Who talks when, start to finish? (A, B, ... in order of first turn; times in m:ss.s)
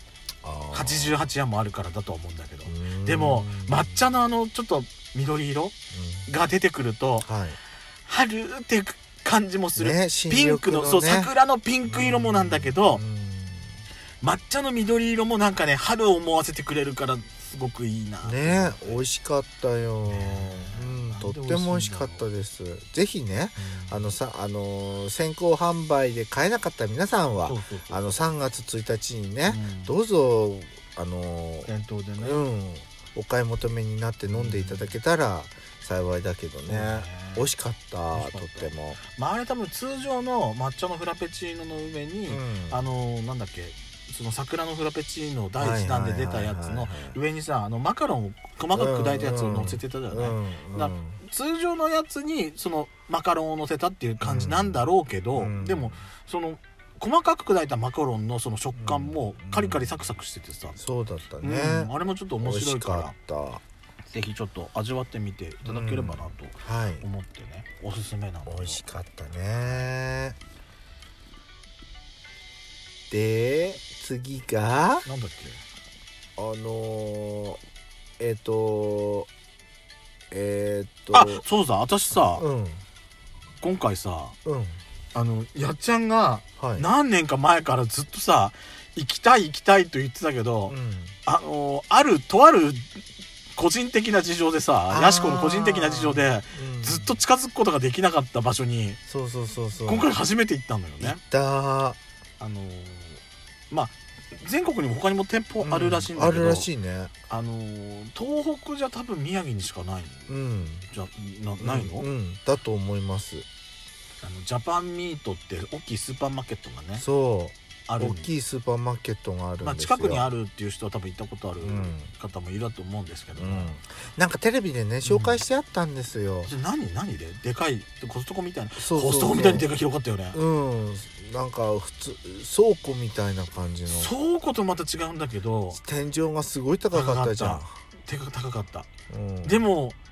0:00.4-0:01.2 A
0:00.7-0:05.7 B
0:02.6-0:04.0 A
0:05.9-0:06.3 A
0:06.3-0:07.3 B
0:07.2-0:07.6 A
0:08.0-0:13.0 B
0:09.8-0:11.3 A
0:11.8-0:13.8 A
0:14.2-0:19.0 B
0:18.2-0:39.0 A
0:20.0-0:22.2 B
0:23.6-0:24.1 B
0:27.4-0:28.2 B
0:29.5-0:29.9 B
0:31.6-0:32.4 B
0:34.3-0:34.9 B
0:36.7-0:37.5 B
0:38.1-1:00.8 B
0:42.3-0:42.9 A
0:45.6-0:47.2 A
0:48.7-0:51.2 A
0:54.2-0:56.0 A
0:58.7-1:00.1 A
1:00.8-1:01.9 A
1:01.4-1:03.1 B
1:02.4-1:03.6 A
1:04.1-1:08.8 B
1:05.6-1:07.0 A
1:08.4-1:10.4 A
1:13.1-1:15.0 A
1:15.0-1:15.6 B
1:16.4-1:17.6 A
1:18.2-1:19.3 A
1:20.3-1:21.4 A
1:21.1-1:22.4 B
1:22.4-1:22.8 A
1:23.6-1:24.4 B
1:24.4-1:24.8 A
1:25.1-1:30.7 B
1:26.6-1:26.9 A
1:30.7-1:31.2 A
1:31.2-1:33.0 B
1:33.5-1:39.0 B
1:34.9-1:37.2 A
1:39.0-1:40.1 A
1:39.8-1:41.2 B
1:41.0-1:42.0 A
1:42.4-1:46.7 B
1:45.6-1:47.1 A
1:47.3-1:50.3 B
1:50.3-1:50.9 A
1:50.9-1:52.1 B
1:51.6-1:53.4 A
1:54.2-1:57.0 B
1:57.0-2:00.3 A
1:57.9-1:58.3 B
1:59.6-2:03.8 B
2:01.6-2:02.1 A
2:03.4-2:06.5 A
2:05.0-2:05.4 B
2:06.5-2:10.4 B
2:08.8-2:09.7 A
2:10.3-2:14.1 A
2:13.9-2:15.8 B
2:15.7-2:17.8 A
2:16.9-2:18.9 B
2:19.1-2:19.7 A
2:19.4-2:20.0 B